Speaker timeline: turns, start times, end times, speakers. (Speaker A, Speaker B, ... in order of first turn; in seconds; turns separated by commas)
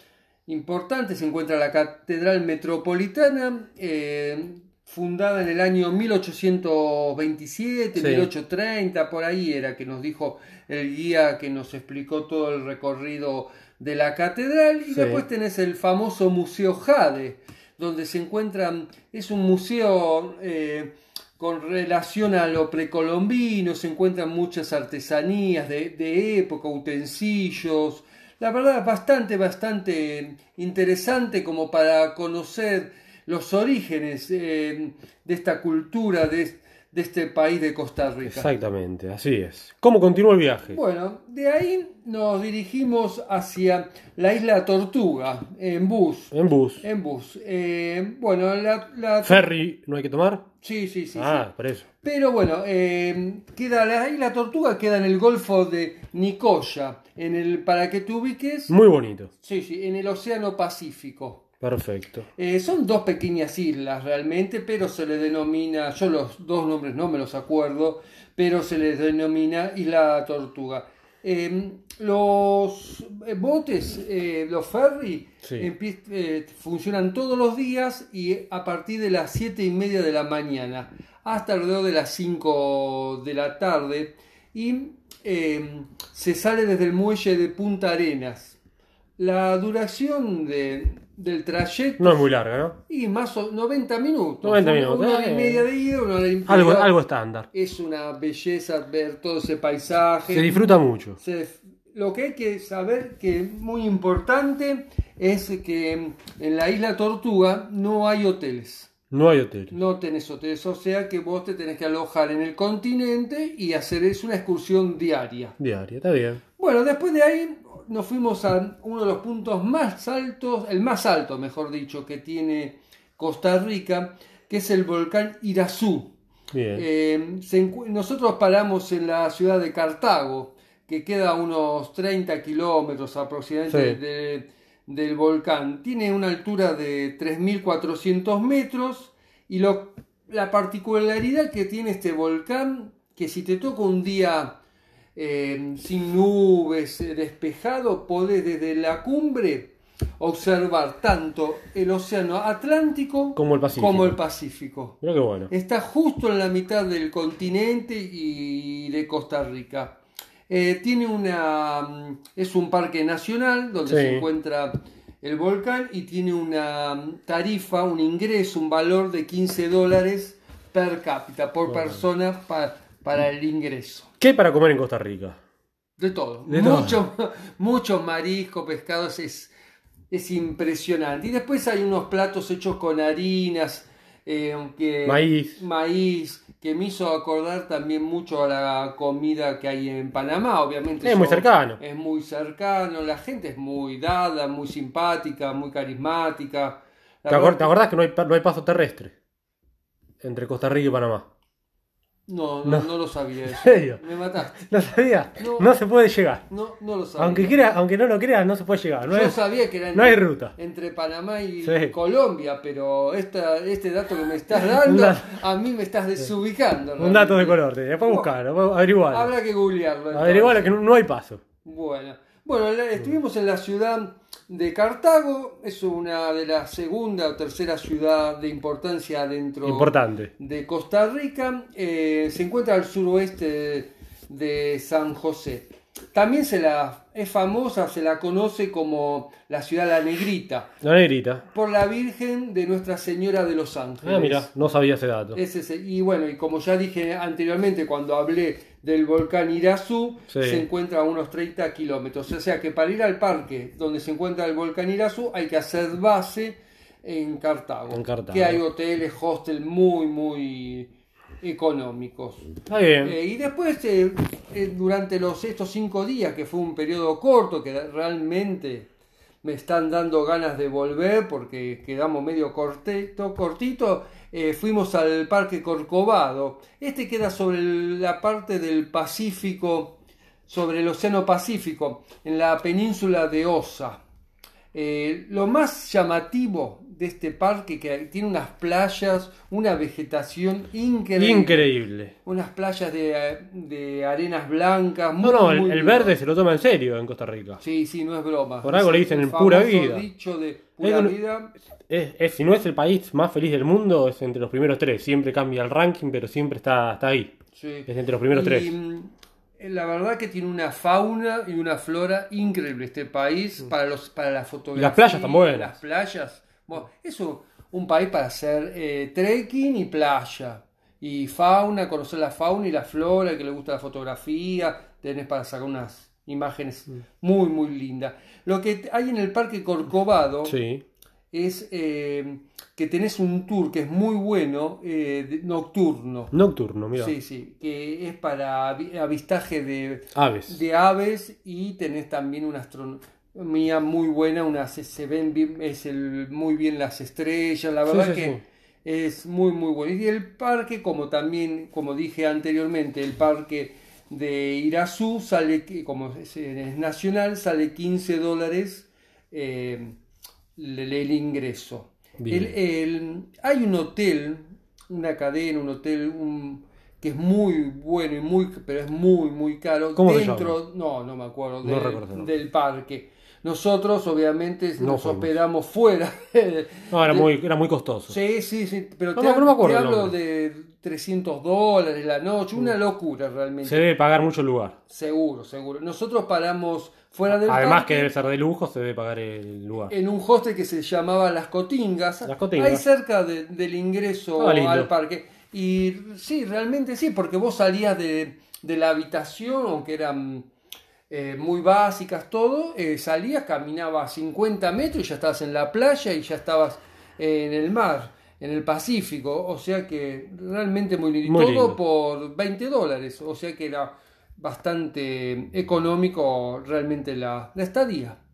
Speaker A: 0.5-38.5, Speaker B: 8.0-8.3, Speaker B: 14.9-15.2, Speaker B: 38.2-40.8, Speaker A: 40.7-49.5, Speaker B: 46.3-46.8, Speaker B: 49.2-50.5, Speaker A: 50.6-51.5, Speaker B: 51.1-51.8, Speaker A: 52.0-58.7, Speaker B: 58.7-59.3, Speaker A: 59.4-61.5, Speaker B: 61.6-62.2, Speaker A: 62.4-88.6, Speaker A: 89.2-92.3, Speaker B: 92.0-92.8, Speaker A: 92.9-96.9, Speaker B: 94.4-95.6, Speaker B: 96.5-97.5, Speaker A: 97.5-108.9, Speaker B: 100.3-101.2, Speaker B: 109.1-109.7, Speaker A: 109.7-115.6, Speaker B: 115.6-116.4, Speaker A: 116.6-126.1, Speaker B: 126.5-126.8, Speaker A: 126.7-144.6, Speaker B: 133.7-134.0, Speaker A: 145.2-155.0, Speaker B: 153.3-154.2, Speaker B: 155.0-155.5, Speaker A: 155.5-174.1, Speaker B: 163.8-164.3, Speaker B: 174.2-175.4, Speaker A: 176.0-179.5, Speaker B: 176.5-177.0, Speaker A: 180.1-197.7, Speaker B: 185.0-185.6, Speaker B: 191.0-191.8, Speaker B: 197.3-199.1, Speaker B: 200.2-201.2, Speaker A: 202.3-204.6, Speaker B: 203.6-204.0, Speaker B: 204.6-206.4, Speaker A: 205.4-205.7, Speaker A: 206.5-207.5, Speaker B: 207.2-209.4, Speaker A: 209.1-218.3, Speaker B: 209.9-210.5, Speaker B: 211.6-211.9, Speaker B: 214.5-215.4, Speaker B: 217.0-219.3, Speaker A: 219.1-220.8, Speaker B: 220.1-221.4, Speaker A: 221.6-240.7, Speaker B: 229.6-230.3, Speaker B: 240.8-241.4, Speaker A: 241.5-244.5, Speaker B: 244.0-245.4, Speaker A: 245.3-260.9, Speaker B: 250.3-250.7, Speaker B: 257.9-258.6, Speaker A: 261.4-262.5, Speaker B: 262.7-263.1, Speaker A: 263.0-268.9, Speaker A: 269.4-284.0, Speaker A: 284.7-291.7, Speaker B: 291.2-292.1, Speaker A: 292.2-296.1, Speaker B: 295.2-297.6, Speaker A: 297.6-301.5, Speaker B: 298.6-300.1, Speaker B: 300.8-301.1, Speaker B: 301.9-307.3, Speaker A: 307.5-330.6, Speaker B: 307.9-308.8, Speaker B: 314.7-315.7, Speaker B: 330.4-330.8, Speaker A: 331.3-336.3, Speaker B: 336.3-337.1, Speaker A: 336.9-360.0, Speaker B: 340.1-340.5, Speaker B: 347.9-348.4, Speaker A: 360.6-377.3, Speaker B: 362.2-362.5, Speaker B: 369.9-370.6, Speaker B: 371.6-372.3, Speaker B: 374.8-375.3, Speaker B: 376.9-378.1, Speaker A: 378.1-383.8, Speaker B: 379.1-380.1, Speaker B: 383.6-384.7, Speaker A: 384.9-388.1, Speaker B: 387.3-389.9, Speaker A: 389.9-400.5, Speaker B: 392.2-392.8, Speaker B: 394.4-394.9, Speaker A: 401.1-418.2, Speaker B: 411.2-411.8